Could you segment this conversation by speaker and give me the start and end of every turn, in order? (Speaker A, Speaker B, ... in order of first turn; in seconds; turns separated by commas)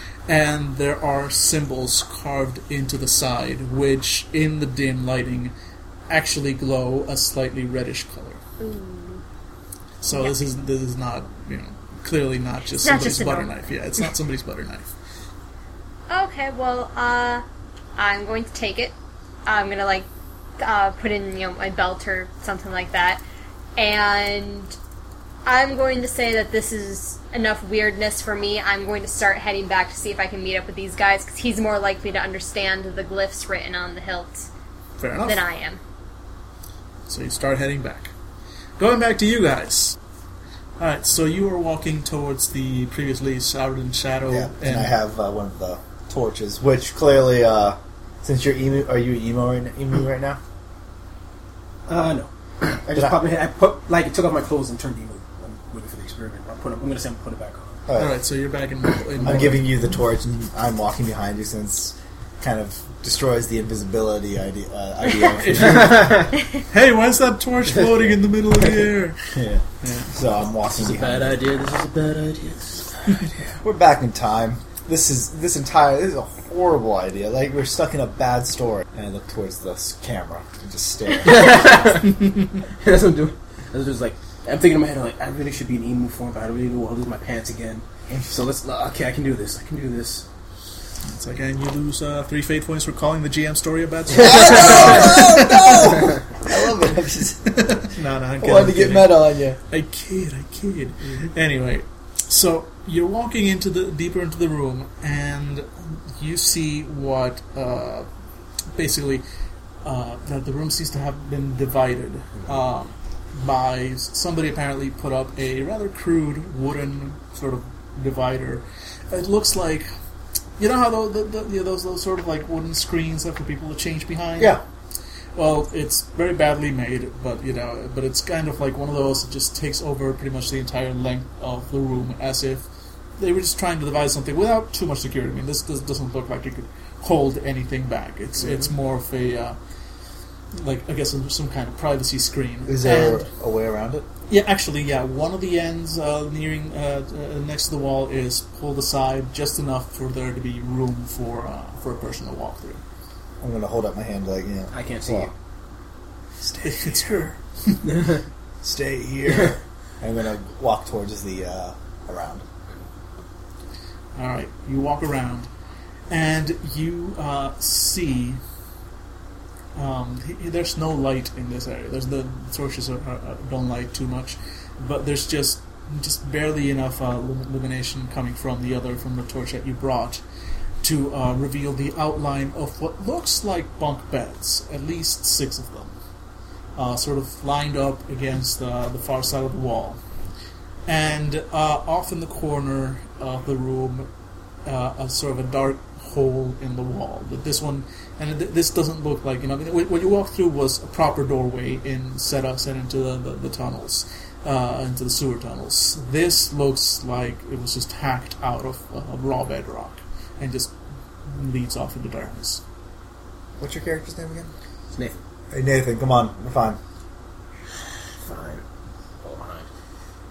Speaker A: 0.3-5.5, Speaker A: 6.1-8.4, Speaker B: 8.6-9.2, Speaker A: 10.0-14.9, Speaker B: 12.8-13.5, Speaker B: 16.1-17.4, Speaker B: 17.9-18.9, Speaker B: 19.4-20.1, Speaker B: 20.6-23.2, Speaker B: 23.8-24.7, Speaker B: 25.4-34.5, Speaker A: 35.0-35.4, Speaker B: 35.2-35.8, Speaker A: 37.1-38.1, Speaker A: 38.8-40.0, Speaker A: 40.8-44.9, Speaker C: 44.3-50.4, Speaker D: 51.9-57.9, Speaker C: 52.9-53.2, Speaker C: 57.9-58.2, Speaker A: 58.0-59.8, Speaker D: 59.0-59.6, Speaker C: 59.2-66.0, Speaker A: 65.2-70.2, Speaker D: 65.6-66.4, Speaker D: 67.7-68.1, Speaker C: 69.3-71.4, Speaker D: 70.7-73.4, Speaker C: 73.6-81.7, Speaker D: 81.2-82.2, Speaker A: 82.1-82.5, Speaker D: 82.8-90.3, Speaker A: 91.0-95.9, Speaker D: 94.1-95.2, Speaker C: 94.1-97.8, Speaker A: 97.4-108.1, Speaker C: 98.4-99.6, Speaker A: 108.8-109.2, Speaker A: 109.8-119.9, Speaker A: 120.6-124.6, Speaker C: 124.4-124.6, Speaker A: 125.4-132.6, Speaker A: 133.2-139.6, Speaker D: 138.4-138.7, Speaker A: 140.5-143.3, Speaker C: 142.7-144.1, Speaker A: 144.3-152.8, Speaker C: 153.4-155.3, Speaker D: 154.7-155.3, Speaker C: 156.4-156.9, Speaker A: 156.6-157.9, Speaker D: 157.8-158.2, Speaker C: 158.6-162.4, Speaker D: 159.3-159.6, Speaker A: 164.2-165.5, Speaker A: 166.1-168.4, Speaker A: 169.7-180.2, Speaker A: 180.8-185.9, Speaker A: 186.7-190.0, Speaker A: 190.9-194.1, Speaker A: 194.6-210.7, Speaker A: 211.3-212.6, Speaker C: 213.6-214.5, Speaker D: 214.9-215.2, Speaker C: 215.5-216.8, Speaker D: 218.2-218.6, Speaker D: 219.2-219.7